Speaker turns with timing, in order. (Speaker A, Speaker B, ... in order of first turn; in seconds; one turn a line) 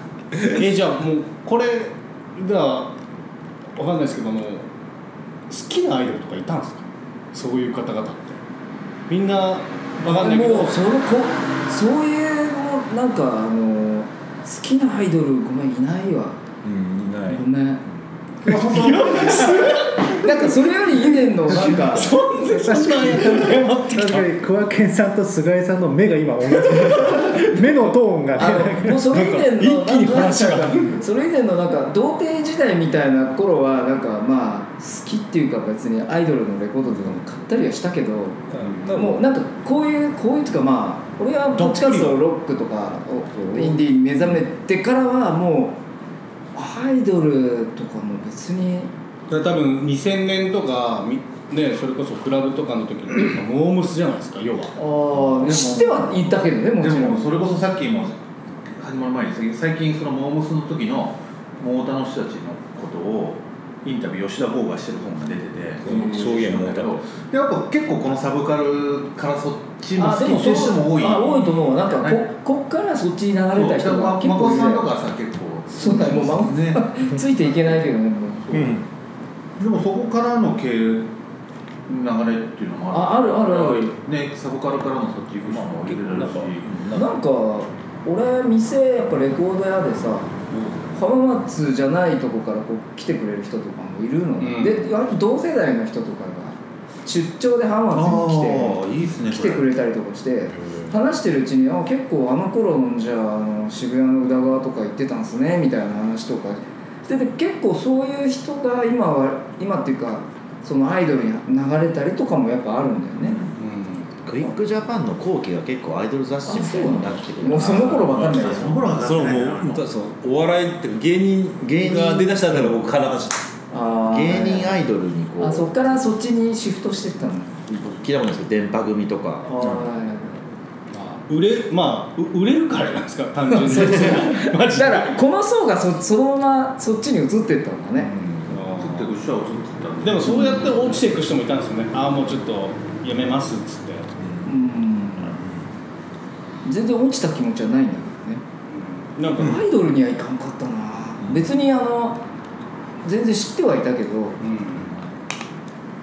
Speaker A: 0.3-0.6
Speaker B: 0.5-2.9
Speaker B: 3.8-4.7
Speaker B: 5.5-8.4
Speaker B: 9.1-10.8
Speaker C: 10.0-16.4
Speaker A: 16.6-19.2
Speaker C: 17.3-17.8
Speaker B: 18.4-24.3
Speaker C: 19.3-22.2
Speaker D: 22.4-29.2
Speaker C: 28.4-45.8
Speaker B: 29.2-30.9
Speaker A: 38.5-39.2
Speaker B: 41.6-42.2
Speaker A: 43.3-43.8
Speaker C: 46.5-48.9
Speaker B: 49.3-54.8
Speaker C: 54.8-57.3
Speaker E: 55.4-72.2
Speaker A: 65.8-67.0
Speaker C: 70.0-74.8
Speaker E: 73.5-77.8
Speaker C: 75.7-78.5
Speaker E: 78.5-78.8
Speaker A: 78.5-78.9
Speaker E: 79.6-81.1
Speaker E: 81.9-86.7
Speaker C: 82.9-84.0
Speaker A: 85.5-87.1
Speaker C: 86.9-90.3
Speaker A: 90.5-90.8
Speaker C: 90.9-113.4
Speaker B: 94.4-94.9
Speaker E: 97.9-99.7
Speaker A: 100.6-100.9
Speaker E: 113.2-113.6
Speaker B: 113.6-114.1
Speaker F: 114.2-118.2
Speaker C: 116.5-118.8
Speaker A: 117.6-123.5
Speaker E: 117.8-119.8
Speaker C: 121.8-122.4
Speaker C: 123.7-124.8
Speaker F: 124.1-126.0
Speaker C: 125.4-127.7
Speaker F: 127.7-129.5
Speaker C: 129.5-130.5
Speaker A: 129.6-129.9
Speaker B: 130.9-135.2
Speaker C: 133.5-138.1
Speaker A: 138.2-138.5
Speaker B: 138.5-139.1
Speaker E: 138.8-141.0
Speaker B: 140.0-144.1
Speaker C: 140.2-140.7
Speaker A: 144.2-144.5
Speaker C: 144.4-145.4
Speaker A: 145.3-145.6
Speaker C: 146.7-148.4
Speaker B: 148.7-149.6
Speaker C: 149.4-152.2
Speaker A: 149.4-149.6
Speaker A: 151.2-151.5
Speaker C: 153.0-154.4
Speaker B: 154.4-155.0